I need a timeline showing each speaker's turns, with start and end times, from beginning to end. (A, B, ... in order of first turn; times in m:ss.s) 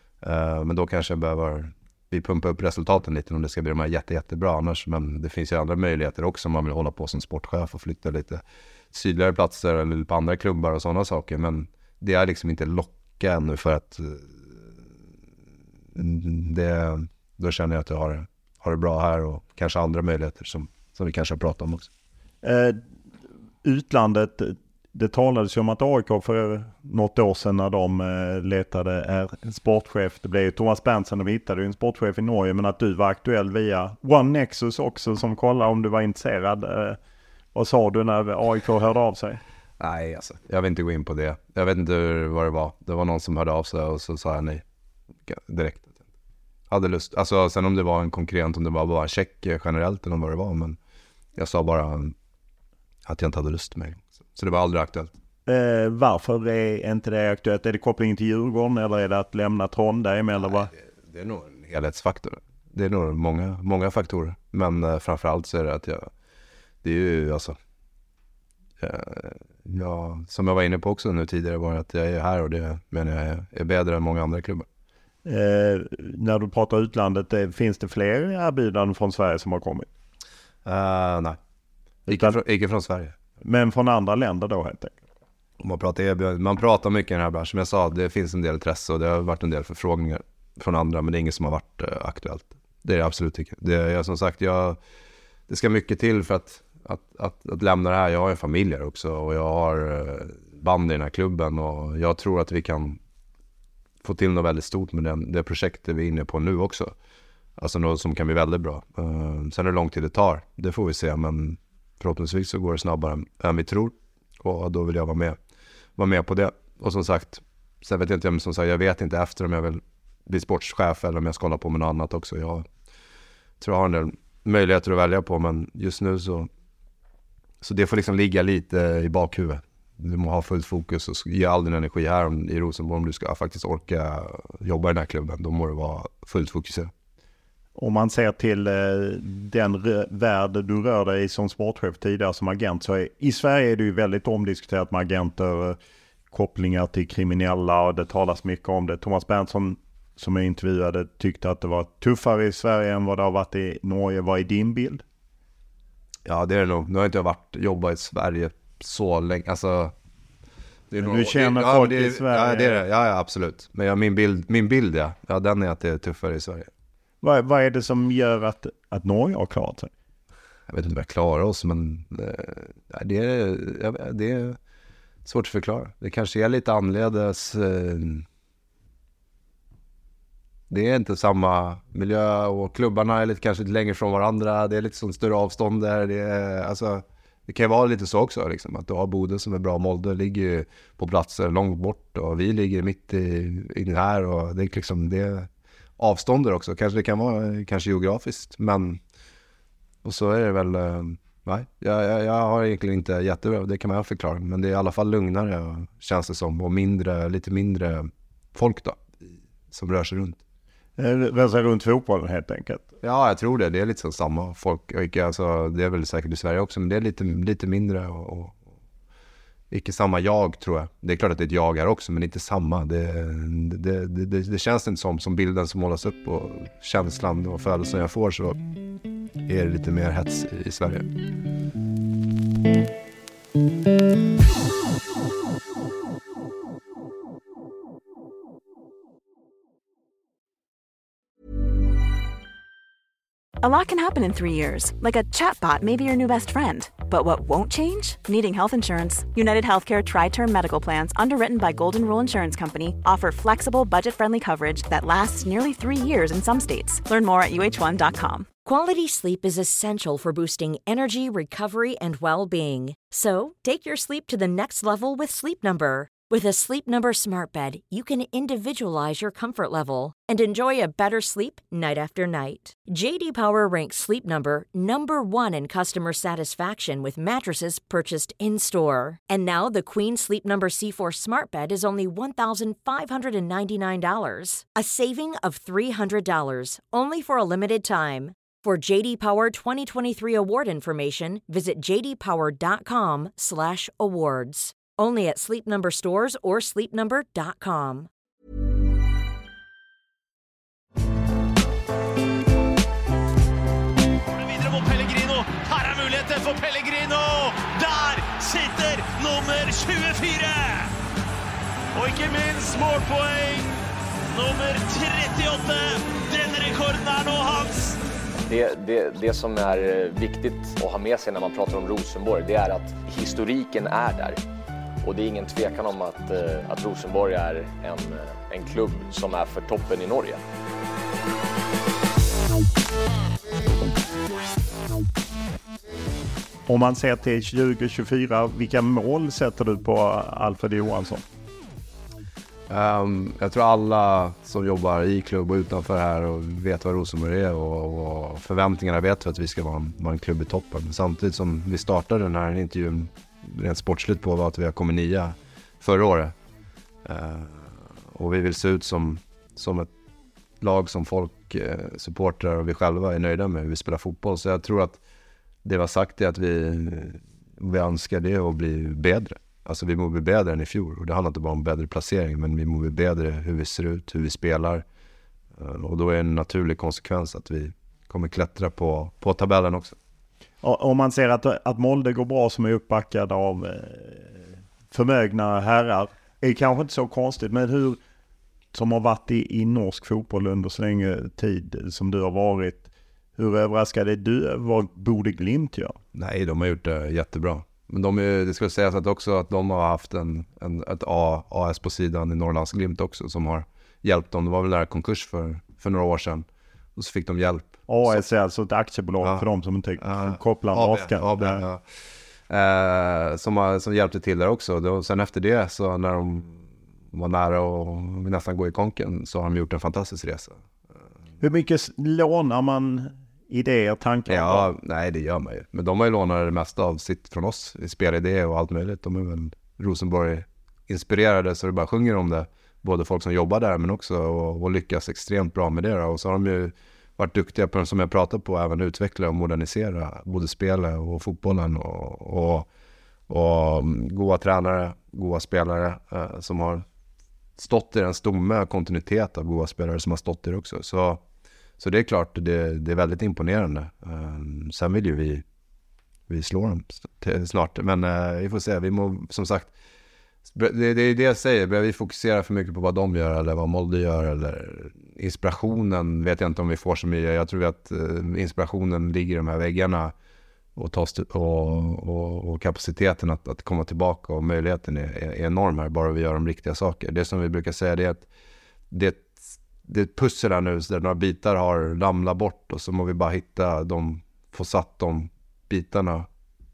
0:00.2-0:14.6 A
0:16.0-0:21.9 A
0:22.4-0:22.8 B
0:23.6-0:37.0 B
0:37.6-0:39.4 B
0:39.8-0:44.6 A
0:45.3-0:46.0 A
0:46.7-0:50.8 A
0:51.4-0:52.2 A
0:53.1-0:55.1 A
0:55.5-1:00.7 B
1:01.0-1:06.1 A
1:06.8-1:07.6 A
1:08.8-1:14.7 A
1:15.2-1:19.9 B
1:20.7-1:21.4 A
1:22.1-1:23.2 A
1:22.1-1:22.4 B
1:23.4-1:25.0 B
1:25.6-1:34.8 A
1:35.5-1:43.0 A
1:44.0-1:47.0 A
1:47.6-1:55.4 A
1:56.0-2:02.7 A
2:03.6-2:06.5 A
2:07.6-2:16.9 A
2:17.8-2:25.8 B
2:26.3-2:35.0 B
2:36.3-2:39.9 A
2:40.9-2:46.7 A
2:41.0-2:42.8 B
2:47.2-2:49.9 B
2:50.7-2:54.6 A
2:55.2-2:58.3 A
3:00.7-3:19.0 A
3:20.0-3:30.4 A
3:31.0-3:32.9 B
3:33.0-3:38.6 A
3:39.7-3:48.6 A
3:49.4-3:51.1 A
4:03.6-4:18.5 C
4:18.7-4:58.1 D
5:04.3-5:10.9 E
5:11.9-5:13.8 E
5:14.3-5:18.0 E
5:18.5-5:24.4 F
5:25.0-5:30.4 F
5:36.7-5:41.2 B
5:42.7-5:56.4 A
5:57.0-5:59.9 A
6:00.6-6:05.0 A
6:05.6-6:14.8 A
6:15.6-6:20.0 A
6:20.6-6:28.0 B
6:28.7-6:36.0 B
6:36.1-6:48.2 A
6:47.9-6:51.6 B
6:49.2-6:49.5 A
6:50.0-7:00.6 A
7:01.4-7:04.7 B
7:04.3-7:22.7 A
7:23.3-7:26.8 A
7:27.6-7:31.2 A
7:31.8-7:35.4 A
7:36.3-7:39.7 A
7:40.5-7:50.1 A
7:50.8-7:58.3 A
7:58.9-8:06.3 A